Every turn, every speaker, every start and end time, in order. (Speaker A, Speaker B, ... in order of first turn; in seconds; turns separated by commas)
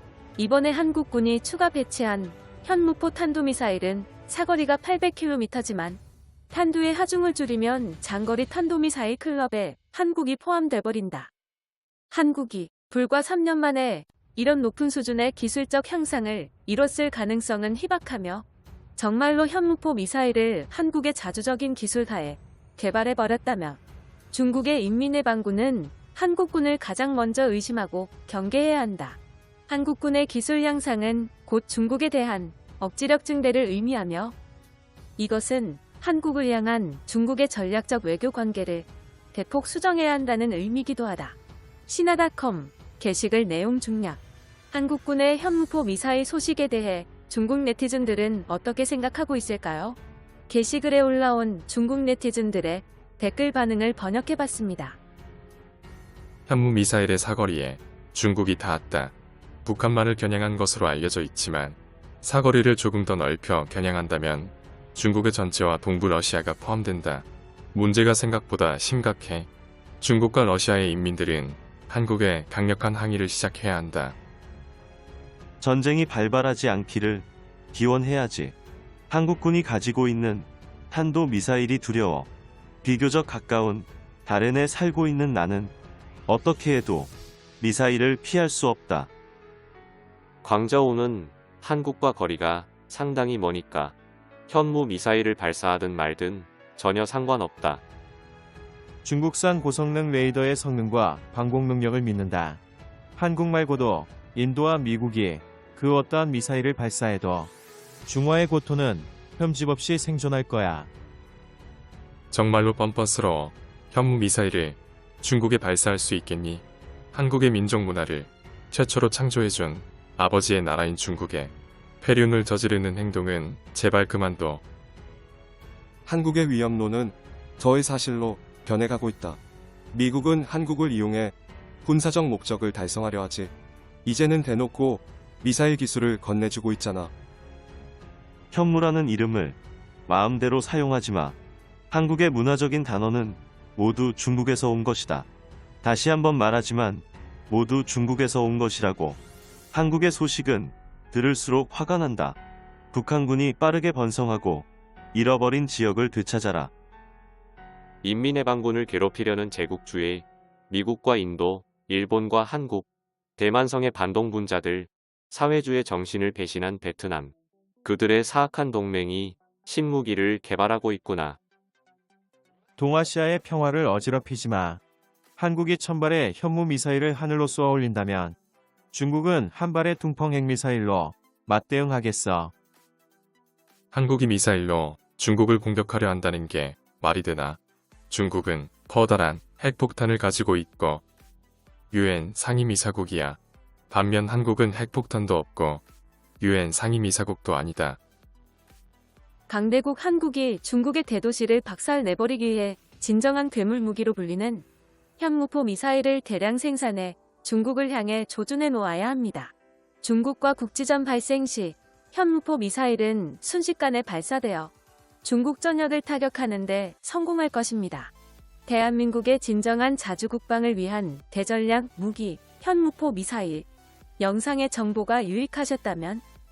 Speaker A: 0.4-6.0, Speaker A: 6.5-11.3, Speaker A: 12.1-18.4, Speaker A: 19.0-23.8, Speaker A: 24.3-34.4, Speaker A: 35.2-41.4, Speaker A: 41.9-44.2, Speaker A: 44.7-50.0, Speaker A: 50.5-55.0, Speaker B: 56.5-59.1, Speaker B: 59.6-69.5, Speaker B: 70.0-74.1, Speaker C: 75.6-78.5, Speaker C: 79.1-82.3, Speaker C: 82.8-85.7, Speaker C: 86.3-89.1, Speaker D: 90.4-93.9, Speaker D: 94.5-97.8, Speaker E: 99.0-102.6, Speaker E: 103.2-107.5, Speaker E: 108.1-110.9, Speaker B: 112.3-124.6, Speaker F: 126.0-129.4, Speaker F: 129.9-133.5, Speaker F: 134.0-137.1, Speaker C: 138.5-141.3, Speaker C: 141.9-145.3, Speaker C: 145.8-149.2, Speaker C: 149.7-152.4, Speaker C: 152.9-156.7, Speaker D: 158.0-171.4, Speaker E: 172.8-174.8, Speaker E: 175.4-178.3, Speaker E: 178.9-182.5, Speaker B: 183.9-187.6, Speaker B: 188.1-191.0, Speaker B: 191.9-193.4, Speaker B: 193.9-195.8, Speaker B: 196.4-198.0, Speaker A: 199.5-204.6, Speaker A: 205.2-214.7, Speaker A: 215.2-218.1, Speaker A: 218.7-223.7, Speaker A: 224.2-226.2